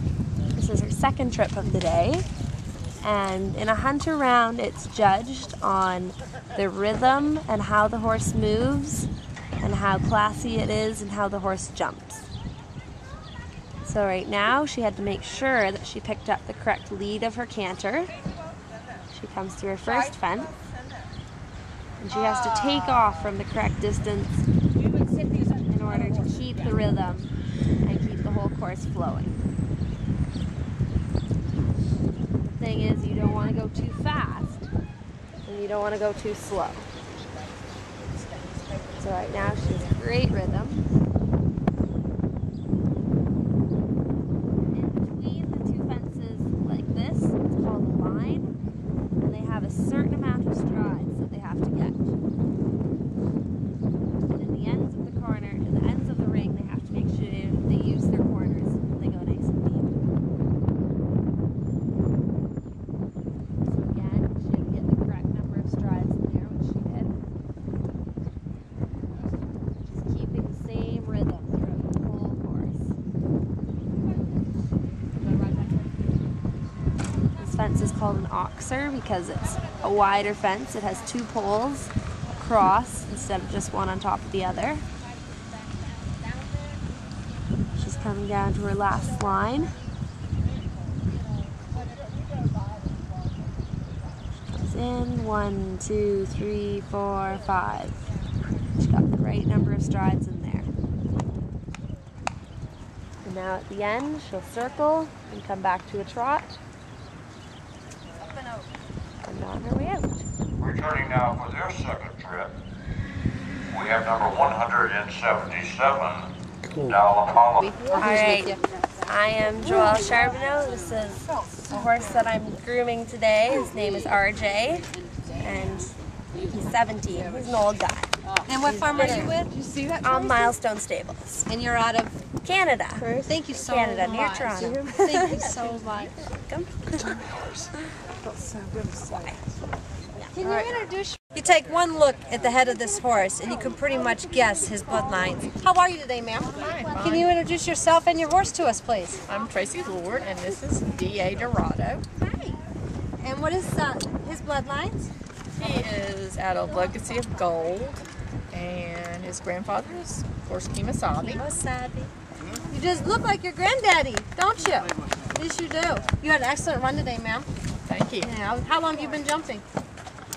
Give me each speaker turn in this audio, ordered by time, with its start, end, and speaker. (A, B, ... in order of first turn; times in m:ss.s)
0:00.5-0:02.3 A
0:03.0-0:09.1 A
0:09.6-0:12.3 A
0:13.8-0:18.1 A
0:19.1-0:20.5 A
0:22.0-0:24.5 A
0:25.6-0:27.3 A
0:27.8-0:29.4 A
0:32.4-0:34.7 A
0:35.4-0:36.9 A
0:39.0-0:40.9 A
0:44.7-0:48.5 A
0:49.2-0:52.2 A
0:54.3-1:00.0 A
1:03.7-1:07.2 A
1:09.8-1:13.0 A
1:15.2-1:15.9 A
1:17.4-1:24.8 A
1:27.8-1:29.8 A
1:34.5-1:38.1 A
1:38.8-1:40.7 A
1:43.2-1:46.6 A
1:49.2-1:50.3 A
1:50.6-1:52.6 B
1:53.7-1:56.3 B
1:56.8-1:57.7 B
1:57.6-1:58.6 C
1:57.9-2:04.9 A
2:05.4-2:05.9 A
2:06.5-2:08.1 A
2:08.5-2:10.1 C
2:08.6-2:09.4 A
2:10.0-2:11.5 A
2:11.5-2:12.1 C
2:12.4-2:15.7 A
2:13.2-2:16.1 C
2:16.5-2:17.6 A
2:18.2-2:19.4 A
2:20.3-2:29.2 C
2:20.4-2:20.8 D
2:26.6-2:27.3 D
2:29.2-2:32.0 D
2:32.2-2:32.6 C
2:33.2-2:35.1 C
2:35.6-2:41.4 D
2:41.2-2:42.1 C
2:42.7-2:47.5 C
2:47.9-2:48.3 D
2:48.2-2:49.6 C